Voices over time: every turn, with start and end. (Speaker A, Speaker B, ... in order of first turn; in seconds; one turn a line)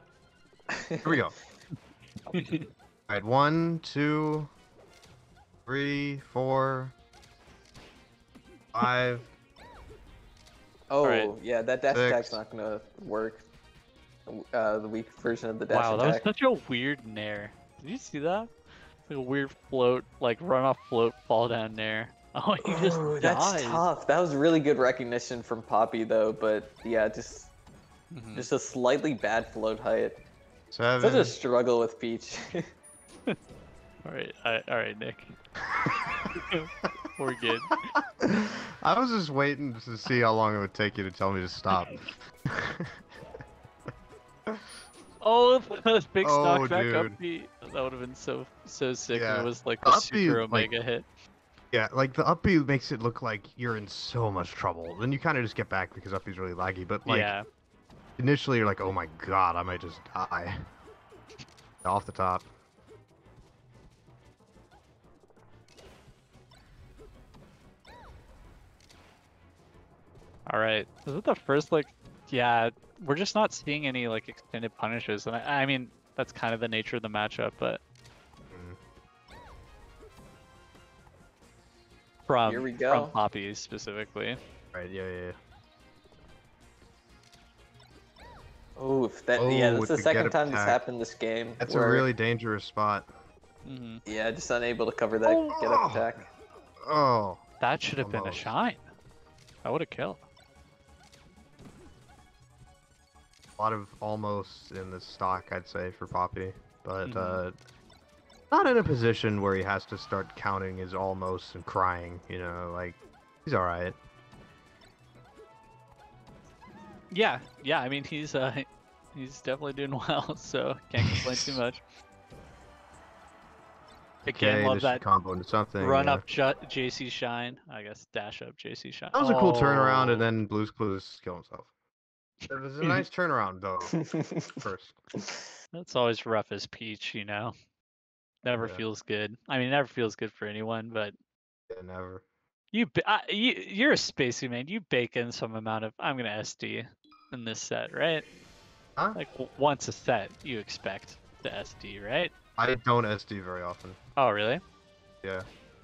Speaker A: 0.7-1.2
Speaker B: 1.0-1.3
Speaker C: 2.3-2.7
Speaker B: 3.1-4.5
Speaker B: 5.7-7.0
Speaker B: 8.7-9.3
Speaker A: 10.9-13.4
Speaker C: 11.0-11.3
Speaker B: 11.9-12.4
Speaker A: 14.3-16.3
Speaker C: 15.7-18.5
Speaker C: 19.1-23.8
Speaker A: 22.6-27.5
Speaker C: 28.1-28.5
Speaker A: 28.3-30.2
Speaker B: 30.7-31.4
Speaker A: 31.0-32.6
Speaker C: 34.0-35.3
Speaker B: 35.8-36.3
Speaker C: 36.4-37.7
Speaker B: 37.7-43.0
Speaker B: 44.5-44.7
Speaker C: 45.2-51.1
Speaker B: 46.2-47.2
Speaker B: 49.1-50.7
Speaker B: 51.7-57.3
Speaker C: 57.1-57.4
Speaker B: 58.2-60.5
Speaker B: 61.8-62.5
Speaker C: 70.5-77.8
Speaker B: 78.5-78.8
Speaker C: 82.3-84.4
Speaker A: 82.5-83.2
Speaker B: 84.7-85.4
Speaker A: 88.8-92.1
Speaker B: 89.4-90.8
Speaker B: 91.6-93.1
Speaker C: 93.7-94.0
Speaker A: 94.0-96.2
Speaker B: 95.5-96.1
Speaker B: 96.8-97.4
Speaker C: 97.6-98.8
Speaker B: 98.0-98.5
Speaker C: 99.6-100.2
Speaker B: 103.6-107.6
Speaker C: 107.0-107.4
Speaker B: 108.5-114.0
Speaker C: 117.1-121.8
Speaker C: 124.2-125.0
Speaker B: 124.4-126.2
Speaker C: 125.8-130.3
Speaker B: 129.2-131.7
Speaker B: 132.5-134.0
Speaker A: 133.9-135.5
Speaker B: 134.6-135.0
Speaker C: 135.7-137.5
Speaker C: 138.4-141.1
Speaker B: 138.6-138.9
Speaker B: 141.7-142.2
Speaker C: 142.7-148.2
Speaker C: 149.2-152.3
Speaker B: 152.6-154.0
Speaker C: 154.2-154.6